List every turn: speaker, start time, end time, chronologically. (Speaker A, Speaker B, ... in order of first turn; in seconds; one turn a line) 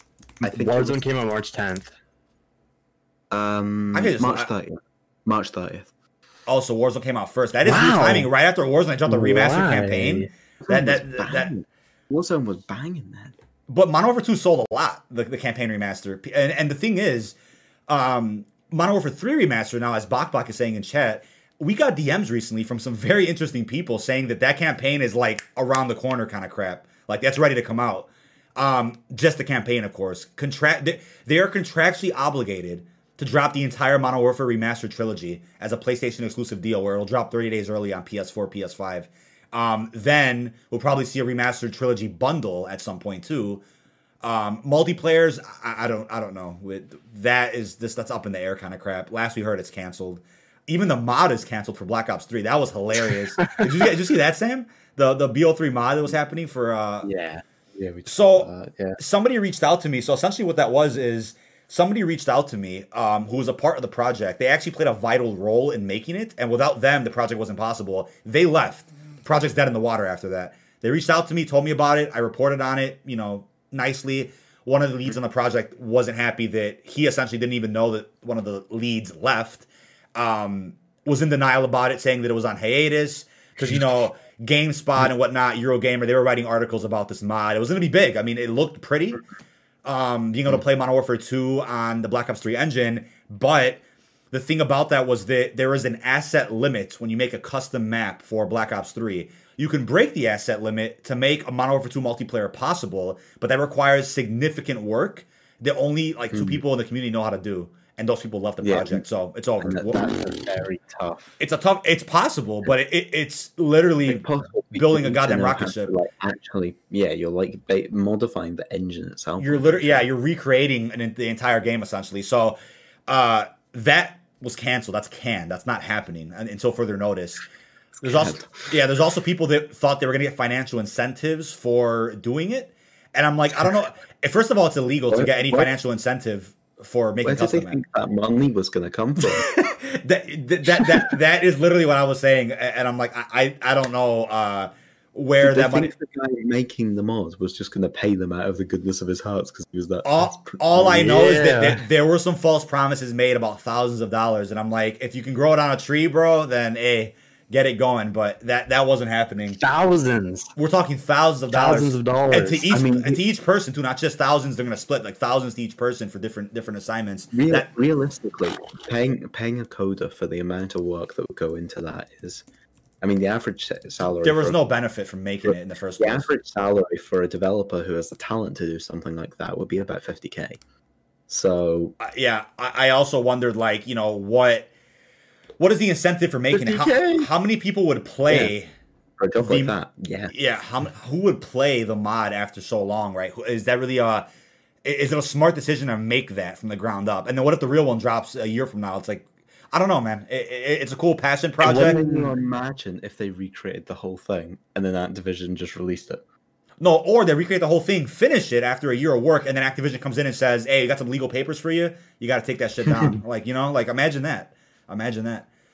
Speaker A: 0.4-1.0
Speaker B: 0.4-1.9
Speaker A: 3.3-5.9
Speaker C: 3.9-4.5
Speaker C: 6.5-11.5
Speaker B: 7.6-8.3
Speaker B: 9.1-10.3
Speaker A: 10.6-13.3
Speaker C: 13.7-17.3
Speaker C: 17.9-43.6
Speaker C: 44.2-57.1
Speaker A: 57.0-59.0
Speaker C: 58.0-89.2
Speaker C: 89.8-93.8
Speaker C: 94.3-110.1
Speaker A: 106.3-106.6
Speaker A: 108.6-109.0
Speaker A: 109.6-111.4
Speaker C: 111.4-115.9
Speaker A: 114.1-120.1
Speaker C: 119.4-127.4
Speaker C: 128.0-137.8
Speaker A: 128.1-128.6
Speaker A: 135.1-135.7
Speaker A: 137.2-139.4
Speaker C: 139.2-145.9
Speaker A: 140.8-141.1
Speaker A: 145.4-151.1
Speaker C: 150.0-159.6
Speaker B: 150.8-151.8
Speaker B: 159.6-160.5
Speaker C: 160.6-167.7
Speaker B: 161.5-162.7
Speaker A: 162.7-163.2
Speaker A: 167.3-172.4
Speaker A: 173.0-174.6
Speaker C: 174.2-176.3
Speaker A: 175.4-180.6
Speaker A: 181.3-181.9
Speaker C: 182.0-184.7
Speaker C: 185.6-188.7
Speaker A: 186.5-187.3
Speaker A: 188.3-188.5
Speaker A: 189.2-190.3
Speaker C: 189.4-189.7
Speaker C: 190.3-194.2
Speaker C: 194.8-202.0
Speaker A: 201.6-206.2
Speaker B: 201.6-202.3
Speaker C: 206.8-215.5
Speaker A: 212.8-213.2